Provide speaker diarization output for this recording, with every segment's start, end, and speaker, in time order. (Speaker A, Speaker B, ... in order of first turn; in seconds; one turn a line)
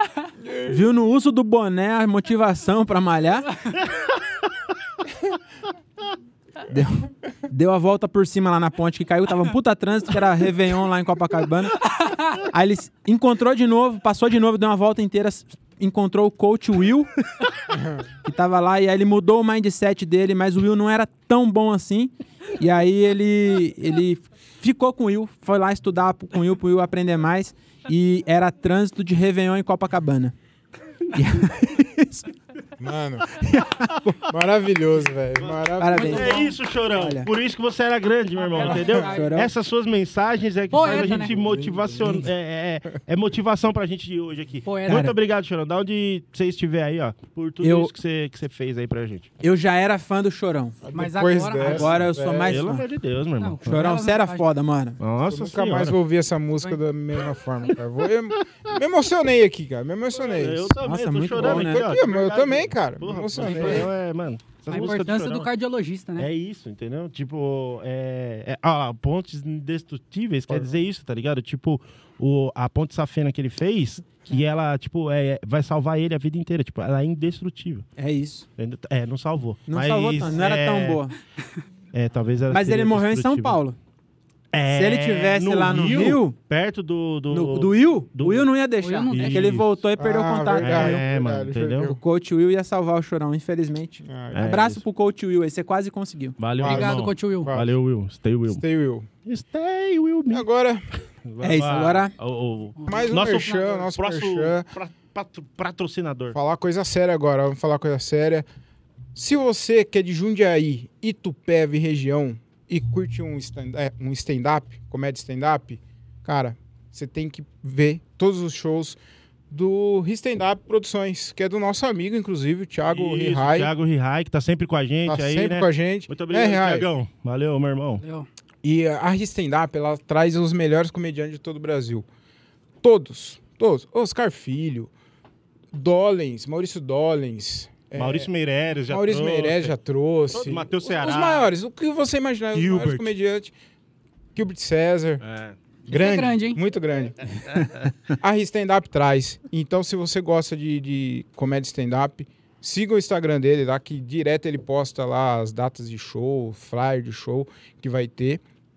Speaker A: 0.4-0.7
Speaker B: 0.6-3.5
Speaker B: 6.7-17.1
Speaker A: 17.7-18.0
Speaker B: 18.2-30.3
Speaker B: 31.1-32.3
Speaker A: 32.8-33.4
Speaker B: 33.3-34.3
Speaker A: 34.3-36.4
Speaker C: 35.4-49.3
Speaker B: 35.8-37.3
Speaker D: 38.5-39.3
Speaker B: 38.6-39.5
Speaker A: 38.6-39.0
Speaker D: 40.7-41.3
Speaker A: 40.8-42.2
Speaker D: 44.6-45.1
Speaker B: 47.6-47.9
Speaker B: 49.4-50.8
Speaker A: 50.8-52.6
Speaker D: 50.9-51.9
Speaker B: 51.6-52.8
Speaker C: 52.0-53.9
Speaker D: 53.4-54.4
Speaker B: 53.6-55.0
Speaker C: 55.0-56.0
Speaker A: 55.2-60.8
Speaker C: 60.2-65.5
Speaker B: 60.8-61.9
Speaker A: 61.4-63.9
Speaker B: 63.4-63.8
Speaker D: 64.7-66.3
Speaker C: 66.2-77.8
Speaker A: 70.5-70.7
Speaker B: 78.0-78.5
Speaker C: 78.5-81.0
Speaker B: 79.7-81.2
Speaker C: 81.9-83.6
Speaker B: 82.5-83.8
Speaker C: 84.5-88.5
Speaker B: 84.7-86.3
Speaker B: 87.3-91.0
Speaker D: 88.8-89.6
Speaker C: 89.1-89.8
Speaker A: 90.0-92.0
Speaker C: 90.6-92.0
Speaker B: 92.0-96.4
Speaker A: 94.0-94.6
Speaker C: 94.3-94.8
Speaker C: 96.4-98.6
Speaker A: 96.6-97.7
Speaker D: 96.6-97.5
Speaker A: 98.5-99.1
Speaker C: 99.2-100.5
Speaker A: 100.3-100.8
Speaker C: 101.2-106.4
Speaker B: 101.4-102.1
Speaker D: 102.8-103.8
Speaker A: 102.9-104.7
Speaker A: 106.3-108.5
Speaker A: 109.1-119.0
Speaker A: 119.5-123.7
Speaker C: 122.9-128.0
Speaker A: 125.1-126.9
Speaker D: 128.0-128.3
Speaker A: 128.6-132.1
Speaker A: 132.8-134.9
Speaker A: 135.7-138.3
Speaker C: 137.9-139.8
Speaker A: 138.9-143.5
Speaker C: 140.3-141.5
Speaker C: 142.5-143.1
Speaker A: 144.3-145.2
Speaker C: 145.2-145.6
Speaker D: 145.9-146.6
Speaker A: 145.9-158.4